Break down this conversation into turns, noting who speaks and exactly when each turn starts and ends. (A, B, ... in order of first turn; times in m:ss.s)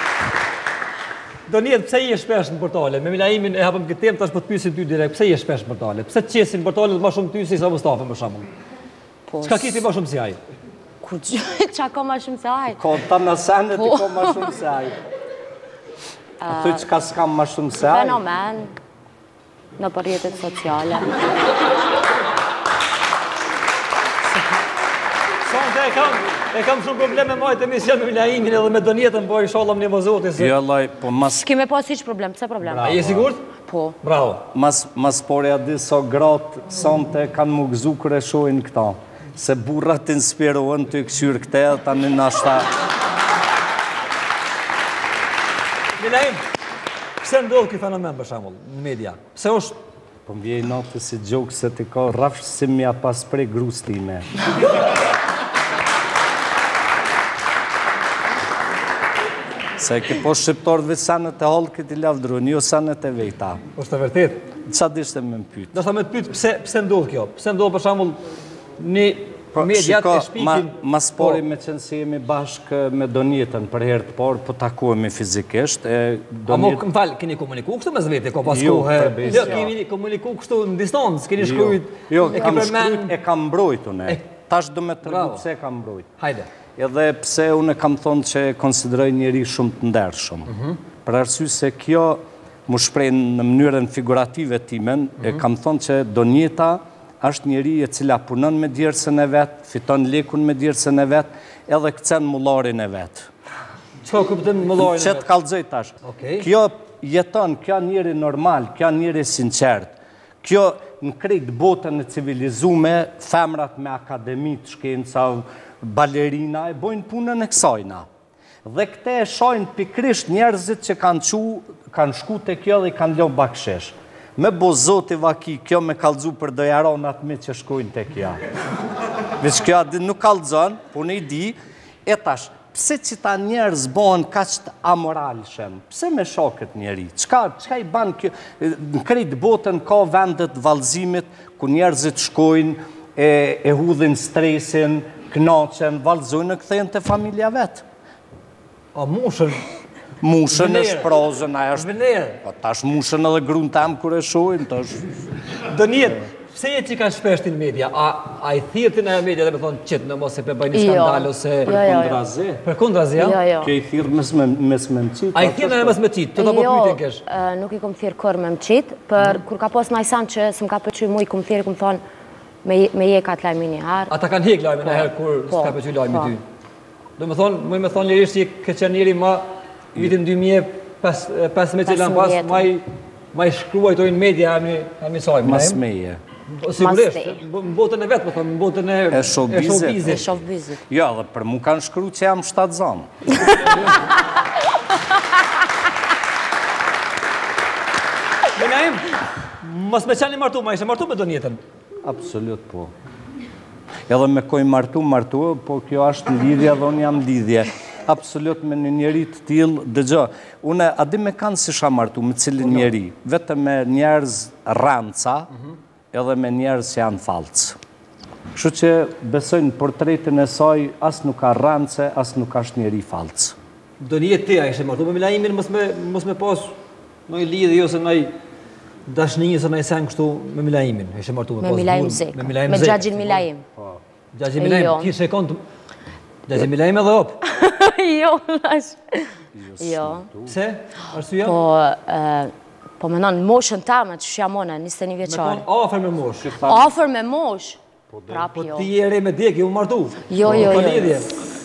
0:01.5-0:08.5 A
0:09.3-0:09.8 B
0:09.4-0:10.4 A
0:11.0-0:12.8 B
0:12.8-0:15.0 C
0:13.8-0:14.5 B
0:16.4-0:16.8 B
0:16.5-0:18.2 C
0:17.8-0:18.7 B
0:19.8-0:21.2 B
0:25.4-0:30.5 A
0:30.4-0:31.5 C
0:31.2-0:32.9 B
0:32.6-0:33.3 C
0:32.8-0:33.4 A
0:33.6-0:34.0 B
0:34.0-0:34.4 A
0:34.5-0:42.7 C
0:46.0-0:46.4 A
0:47.2-0:49.8 A
0:50.2-0:54.3 C
0:59.8-1:03.6 C
1:03.8-1:04.5 A
1:04.6-1:05.7 C
1:05.7-1:08.2 A
1:08.8-1:11.4 A
1:09.6-1:16.8 C
1:16.5-1:23.2 A
1:18.5-1:19.7 C
1:21.4-1:26.1 C
1:25.0-1:25.4 A
1:26.2-1:26.5 A
1:26.8-1:43.3 C
1:30.5-1:30.8 A
1:44.0-1:45.3 A
1:44.8-1:58.1 C
1:46.0-1:46.5 A
1:58.6-2:08.4 C
2:09.4-2:27.8 C
2:29.0-2:29.6 A
2:30.2-2:35.3 C
2:30.5-2:31.1 A
2:31.8-2:32.4 A
2:35.6-2:41.8 A
2:40.7-2:42.2 B
2:41.7-2:42.6 C
2:42.6-2:43.4 A
2:43.2-2:43.7 B
2:43.6-2:46.0 C
2:45.3-2:47.2 A
2:46.4-2:52.0 B
2:52.6-2:54.1 B
2:54.1-2:56.4 A
2:54.8-2:56.3 B
2:57.2-3:05.8 A
3:01.9-3:02.7 B
3:05.4-3:06.2 C
3:06.5-3:10.2 A
3:06.8-3:07.4 B
3:09.1-3:13.1 C
3:10.0-3:10.8 B
3:18.6-3:19.0 A
3:19.6-3:21.6 A
3:22.0-3:22.9 C
3:24.1-3:35.5 C
3:32.6-3:32.9 A
3:36.1-3:37.8 C
3:38.6-3:43.6 C
3:44.0-3:46.8 A
3:47.3-3:48.4 A
3:49.1-3:53.5 A
3:51.6-3:53.6 B
3:54.3-3:55.6 A
3:54.6-3:55.1 B
3:56.5-3:57.4 A
3:57.4-4:00.2 B
3:59.6-4:00.6 C
4:00.5-4:01.6 A
4:01.4-4:05.7 B
4:05.2-4:06.5 A
4:06.4-4:06.9 C
4:06.7-4:08.9 B
4:08.1-4:08.5 C
4:08.5-4:11.3 A
4:10.3-4:11.2 B
4:10.4-4:11.0 C